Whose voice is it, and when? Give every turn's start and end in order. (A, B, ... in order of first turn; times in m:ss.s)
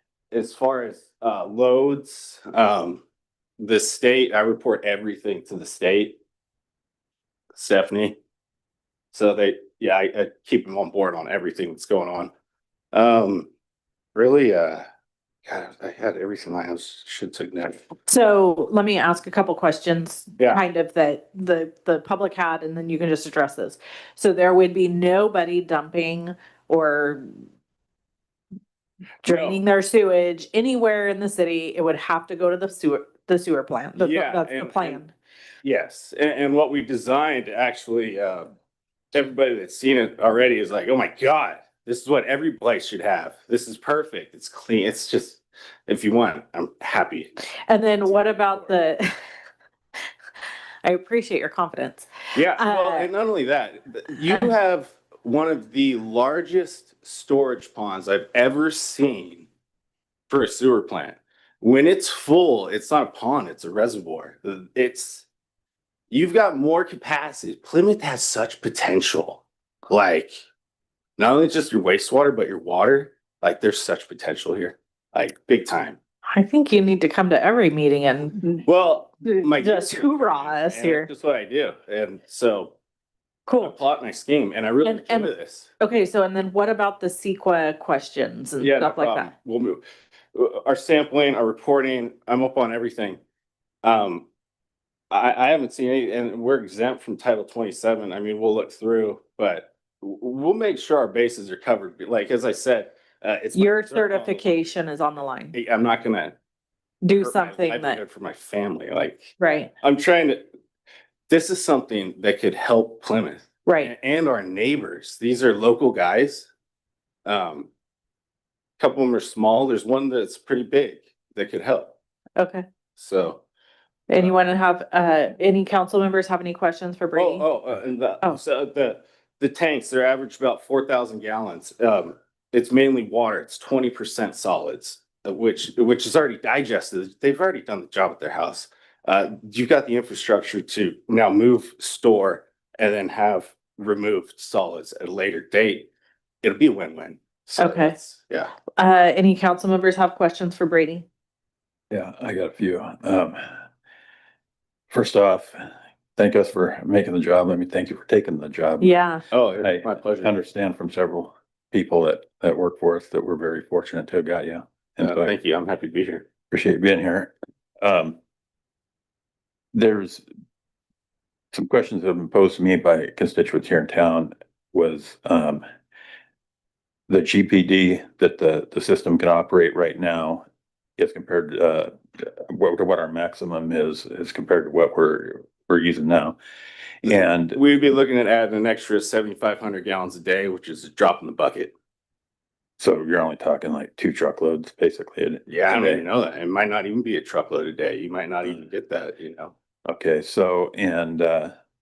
0:00.3-0:03.0 A
0:03.6-0:06.2 A
0:07.5-0:08.2 A
0:09.1-0:12.3 A
0:12.9-0:13.5 A
0:14.1-0:14.8 A
0:15.4-0:17.8 A
0:18.1-0:27.3 B
0:29.2-0:35.1 B
0:29.2-0:29.6 A
0:34.0-0:35.0 A
0:35.6-0:38.5 A
0:39.1-0:47.3 A
0:47.7-0:49.1 B
0:48.1-0:48.7 A
0:50.8-0:53.1 B
0:52.3-0:59.5 A
1:00.3-1:05.3 A
1:06.1-1:10.4 A
1:11.2-1:16.0 A
1:16.3-1:18.6 B
1:18.6-1:22.7 A
1:19.2-1:21.1 B
1:23.5-1:23.7 B
1:23.6-1:25.7 A
1:24.8-1:29.3 B
1:28.6-1:29.8 A
1:30.3-1:33.2 A
1:33.8-1:34.2 A
1:35.1-1:44.4 A
1:43.5-1:45.6 B
1:45.5-1:46.3 A
1:47.0-1:48.0 B
1:47.2-1:50.5 A
1:49.4-1:49.7 B
1:51.3-1:56.5 A
1:53.6-1:53.9 B
1:57.2-1:57.7 A
1:58.8-2:02.0 A
2:02.4-2:02.6 B
2:03.0-2:03.4 A
2:04.1-2:07.5 B
2:07.1-2:25.9 A
2:26.4-2:28.5 A
2:27.6-2:27.9 B
2:28.8-2:31.0 B
2:31.9-2:33.4 C
2:34.9-2:35.6 C
2:36.2-2:38.9 C
2:38.8-2:39.2 B
2:39.3-2:40.3 A
2:39.6-2:45.3 C
2:45.0-2:46.2 A
2:46.5-2:48.2 C
2:49.7-2:50.2 C
2:51.5-2:55.6 C
2:57.1-3:00.4 C
3:01.0-3:06.4 C
3:07.0-3:07.6 C
3:07.0-3:11.7 A
3:12.8-3:16.0 C
3:15.5-3:19.5 A
3:19.9-3:21.5 C